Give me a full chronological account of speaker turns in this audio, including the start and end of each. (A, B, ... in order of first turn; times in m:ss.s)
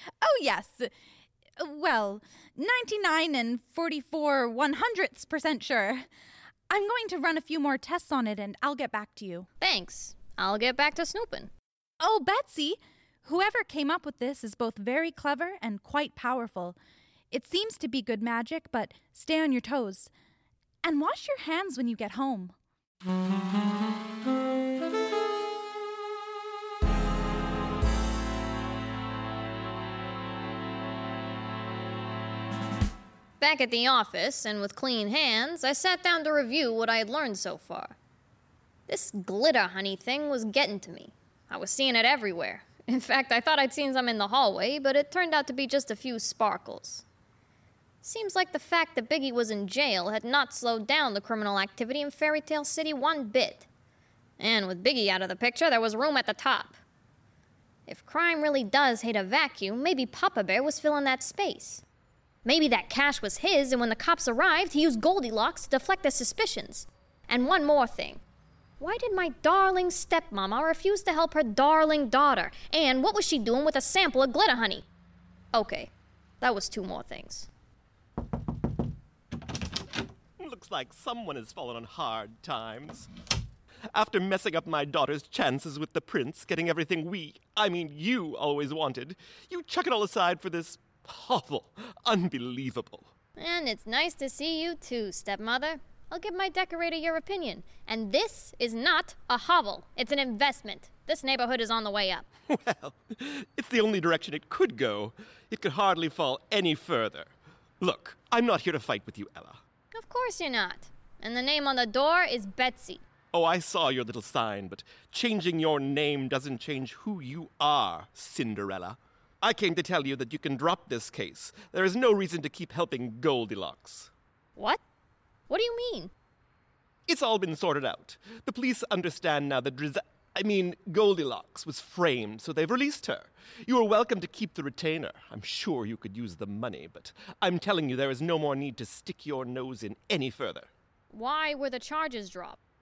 0:00.2-0:00.9 A
0:01.6-0:06.1 A
0:06.7-0:09.5 A
0:09.6-0:11.5 B
0:12.0-0:16.8 A
0:17.3-0:20.1 A
0:20.8-0:22.5 A
0:33.4-0:38.0 B
0:38.9-0:47.0 B
0:48.0-0:53.7 B
0:54.4-0:56.8 B
0:57.9-1:01.8 B
1:02.4-1:08.2 B
1:08.8-1:14.9 B
1:15.5-1:17.5 B
1:20.4-1:23.1 C
1:23.9-1:33.1 C
1:33.4-1:42.3 B
1:42.5-1:49.6 C
1:49.9-1:53.0 B
1:53.3-2:04.1 C
2:05.5-2:06.1 B
2:07.1-2:20.7 C
2:21.1-2:22.6 B